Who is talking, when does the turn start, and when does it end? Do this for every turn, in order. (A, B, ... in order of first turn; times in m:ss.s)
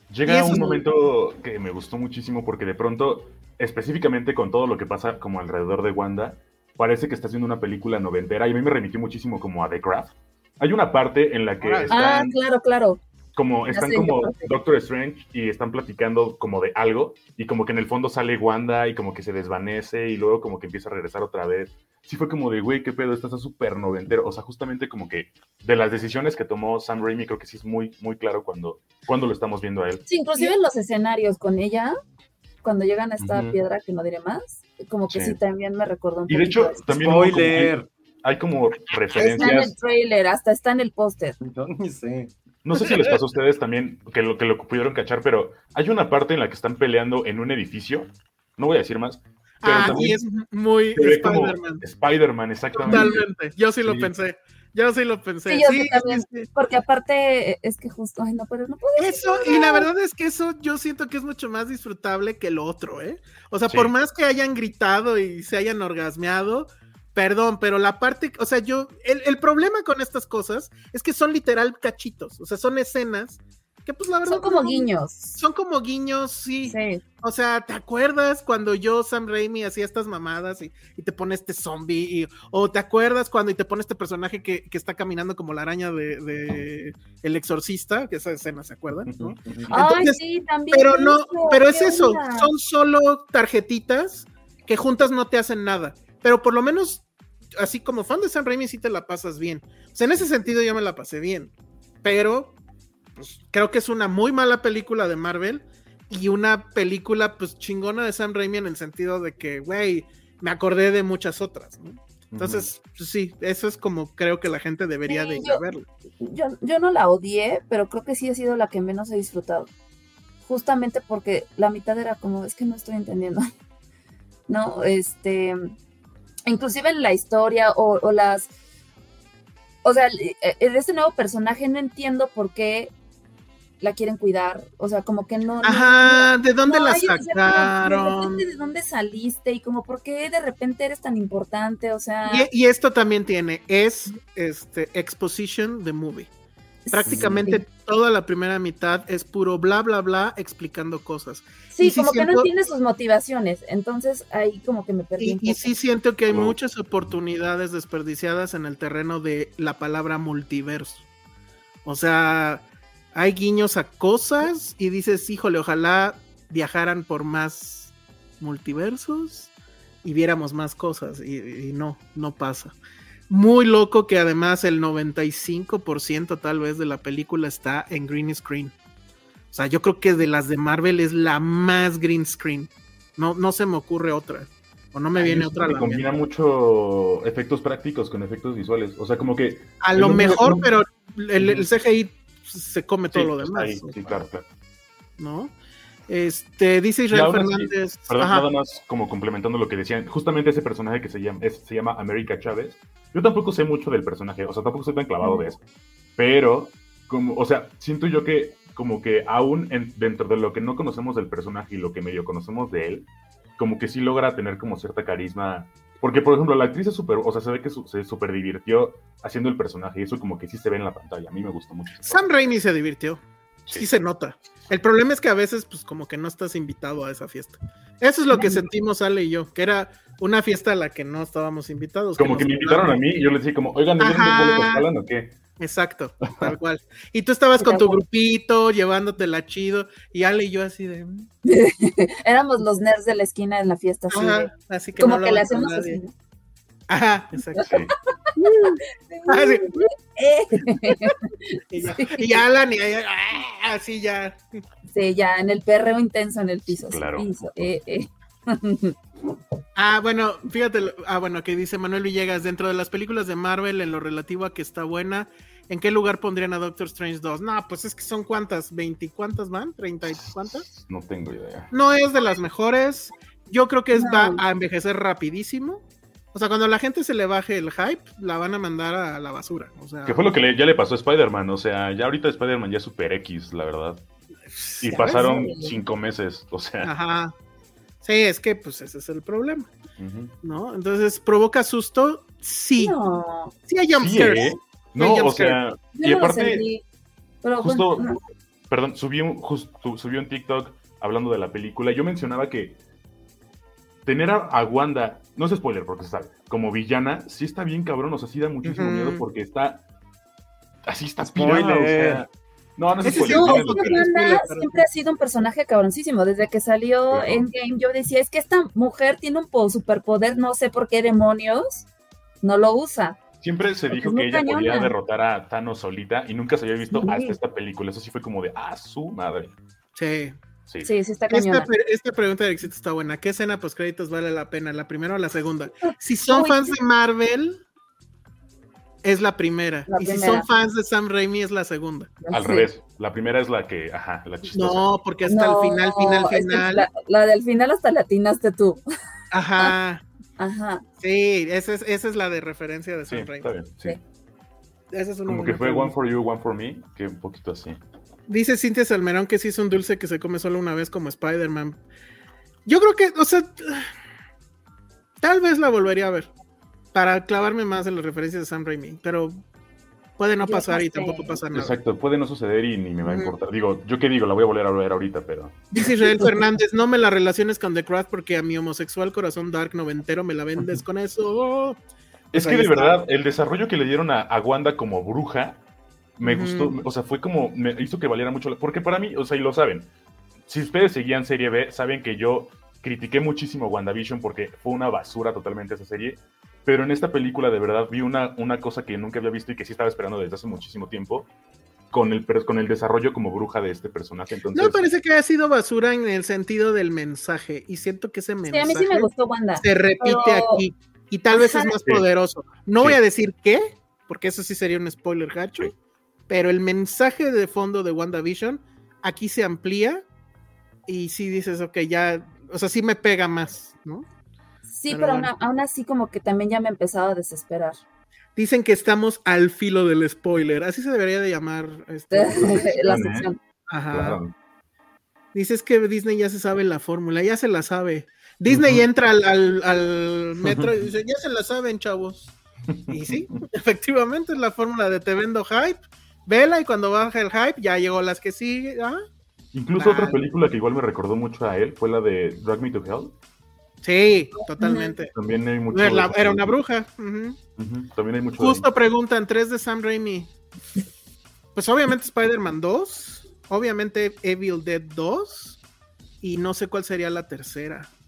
0:00.1-0:12.4 A
0:00.3-0:00.8 B
0:00.5-0:00.8 C
0:11.6-0:12.0 B
0:11.9-0:13.0 C
0:13.4-0:30.1 A
0:13.7-0:14.5 C
0:30.1-0:32.0 C
0:32.6-0:36.8 C
0:33.2-0:33.6 A
0:35.1-0:35.4 A
0:36.3-0:39.7 A
0:36.9-0:37.9 D
0:39.2-0:41.4 C
0:39.2-0:39.5 B
0:41.4-0:42.3 D
0:42.6-0:50.2 A
0:42.7-0:43.2 B
0:49.6-0:51.8 B
0:51.0-0:53.2 A
0:52.8-0:56.5 B
0:53.8-0:54.1 A
0:55.5-0:59.9 C
0:59.0-1:30.2 B
1:03.7-1:03.9 A
1:14.3-1:15.4 C
1:16.7-1:17.0 C
1:29.1-1:29.7 A
1:29.7-1:32.5 C
1:30.7-1:37.0 B
1:37.6-1:41.5 B
1:42.0-1:42.6 B
1:43.2-1:55.9 B
1:52.3-1:52.7 A
1:55.1-1:55.6 C
1:56.2-1:59.7 C
2:00.4-2:03.5 C
2:04.5-2:05.6 C
2:06.5-2:08.5 C
2:09.8-2:12.9 C
2:13.8-2:22.5 C
2:15.6-2:18.4 B
2:22.3-2:26.3 B
2:26.9-2:27.6 C
2:26.9-2:32.5 B
2:27.1-2:27.4 A
2:31.7-2:35.7 C
2:35.2-2:41.0 B
2:36.3-2:36.6 A
2:41.8-2:49.5 B
2:50.0-2:52.8 B
2:53.3-2:58.7 B
2:59.5-3:06.0 B
3:05.2-3:10.7 A
3:09.8-3:14.2 B
3:11.4-3:11.7 A
3:13.1-3:14.5 A
3:15.2-3:15.6 B
3:16.1-3:18.5 B
3:17.1-3:25.6 A
3:26.2-3:42.2 A
3:42.0-3:53.0 B
3:48.3-3:48.6 C
3:52.2-3:55.4 A
3:54.0-3:54.9 B
3:55.6-4:01.3 B
3:56.2-3:56.5 A
3:57.6-3:58.0 C
4:01.4-4:06.1 C
4:04.1-4:06.0 B
4:06.9-4:07.7 B
4:07.6-4:07.9 A
4:08.4-4:09.8 B
4:09.0-4:12.4 C
4:10.8-4:11.1 B
4:11.7-4:14.4 B
4:14.9-4:19.0 C
4:16.9-4:17.7 A
4:19.8-4:30.7 B
4:30.1-4:31.7 A
4:31.7-4:35.8 B
4:33.9-4:34.4 C
4:36.3-4:40.2 B
4:40.0-4:44.0 A
4:44.6-4:45.3 B
4:44.8-4:46.9 A
4:44.9-4:45.8 C
4:46.8-4:47.3 B
4:48.0-4:49.7 B
4:50.0-4:50.4 A
4:50.4-4:53.0 B
4:52.8-4:53.6 C
4:53.7-4:55.6 B
4:53.9-4:56.7 A
4:56.0-4:56.8 C
4:57.4-4:58.2 C
4:57.6-4:58.1 A
4:58.7-5:02.8 A
5:04.0-5:09.8 A
5:08.6-5:09.2 B
5:10.9-5:14.0 A
5:11.2-5:12.2 D
5:13.0-5:14.8 B
5:13.2-5:21.9 C
5:17.1-5:17.5 A
5:22.4-5:23.2 C
5:23.4-5:29.5 A
5:23.9-5:24.9 C
5:26.9-5:27.4 C
5:30.0-5:30.4 B
5:30.8-5:31.7 C
5:31.3-5:37.6 B
5:35.8-5:36.8 C
5:39.0-5:42.2 B
5:39.9-5:40.5 C
5:42.2-5:42.7 C
5:42.3-5:44.9 A
5:44.5-5:46.9 B
5:45.3-5:48.8 C
5:49.3-5:50.0 B
5:50.4-5:50.8 C
5:51.0-5:53.5 B
5:53.1-5:54.0 A
5:54.9-5:55.9 B
5:55.3-5:57.8 A
5:58.3-6:01.8 B
6:02.7-6:03.9 B
6:05.2-6:06.3 B
6:06.9-6:09.4 B
6:10.2-6:11.8 B
6:10.4-6:11.4 C
6:11.5-6:15.7 A
6:13.0-6:13.4 B
6:15.7-6:21.8 B
6:22.3-6:25.6 A
6:22.3-6:23.0 B
6:26.2-6:29.9 A
6:26.2-6:26.8 B
6:30.5-6:41.3 A
6:41.9-6:44.8 A
6:44.6-6:55.7 B
6:48.5-6:50.6 C
6:51.3-6:51.8 C
6:56.3-7:00.0 B
7:00.9-7:04.1 B
7:04.7-7:07.8 C
7:04.9-7:05.3 B
7:08.4-7:12.8 B
7:12.1-7:13.4 C
7:12.8-7:13.3 A
7:13.7-7:14.2 B
7:13.9-7:14.3 A
7:15.3-7:22.3 B
7:18.5-7:18.8 A
7:22.7-7:23.2 A
7:22.9-7:29.0 B
7:29.5-7:33.2 A
7:29.8-7:30.2 B
7:33.8-7:35.1 B
7:34.6-7:35.0 C
7:35.1-7:36.6 A
7:35.7-7:37.4 B
7:37.6-7:38.7 A
7:38.4-7:40.3 B
7:41.6-7:45.6 B
7:46.2-7:47.9 B